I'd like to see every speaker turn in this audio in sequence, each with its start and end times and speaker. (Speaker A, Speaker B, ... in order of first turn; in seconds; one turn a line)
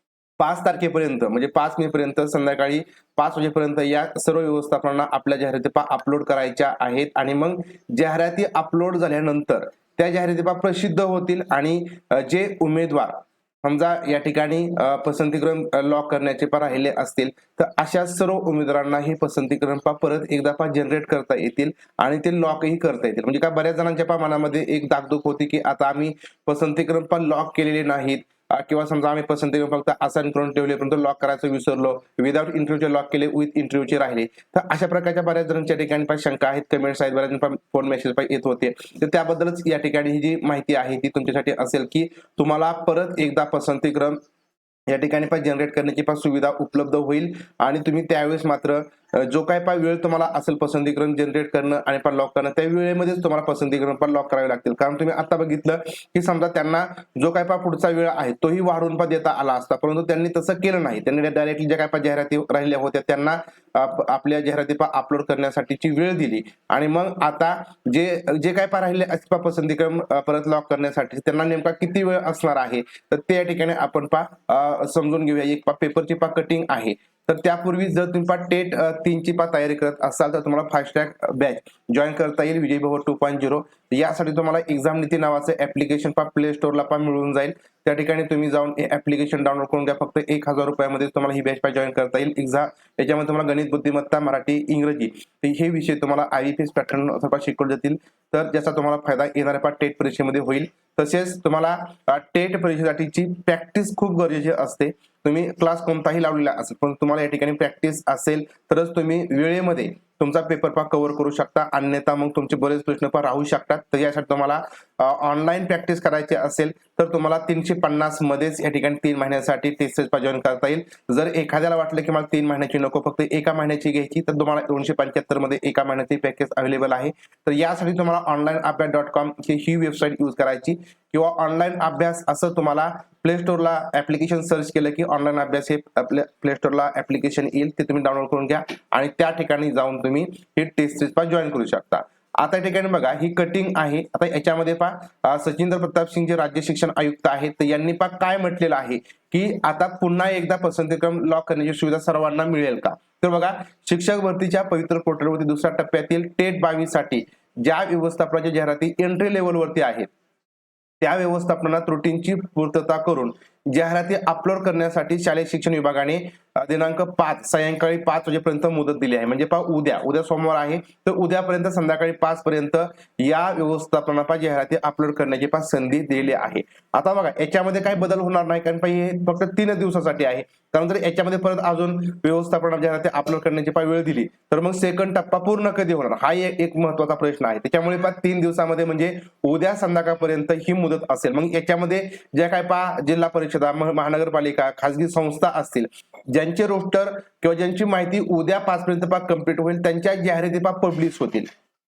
Speaker A: 0.4-44.2
Speaker A: 44.9-160.1
Speaker A: 161.0-201.5